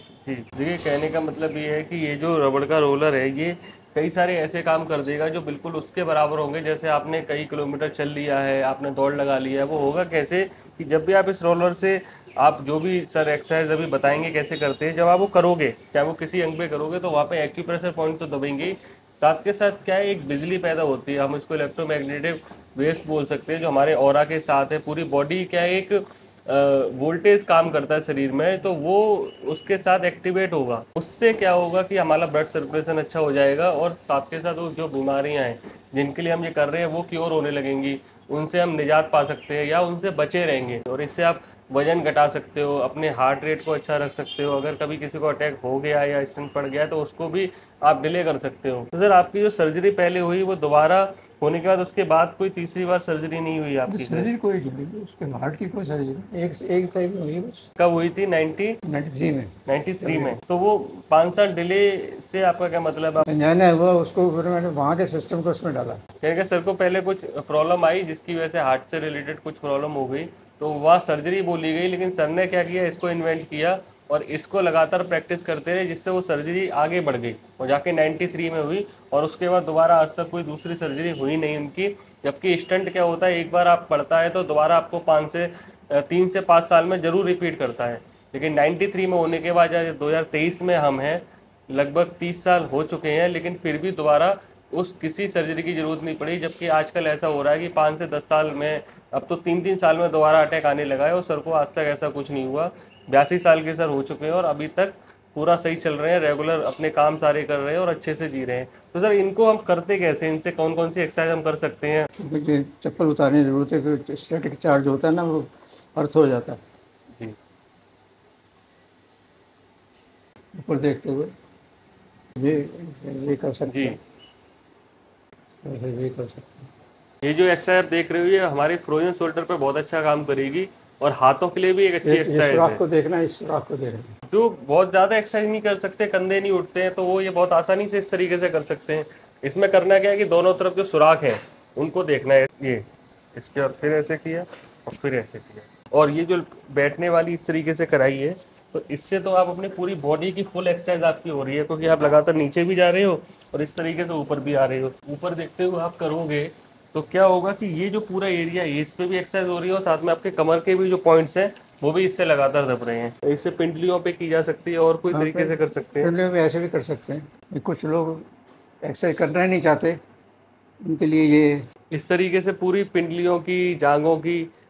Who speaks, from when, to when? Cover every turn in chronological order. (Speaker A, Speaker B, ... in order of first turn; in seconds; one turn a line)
Speaker A: 0.2-54.3
Speaker B: 53.9-57.7
Speaker A: 57.8-58.8
Speaker B: 58.9-60.4
Speaker A: 59.7-63.2
Speaker B: 63.2-66.0
Speaker A: 66.2-112.1
Speaker B: 112.2-116.6
Speaker B: 120.5-121.3
Speaker B: 122.4-124.0
Speaker A: 123.7-124.0
Speaker B: 125.6-126.7
Speaker A: 127.2-132.8
Speaker B: 132.0-134.1
Speaker A: 134.3-166.1
Speaker B: 165.1-168.2
Speaker B: 168.8-170.0
Speaker B: 170.8-171.6
Speaker A: 171.9-174.5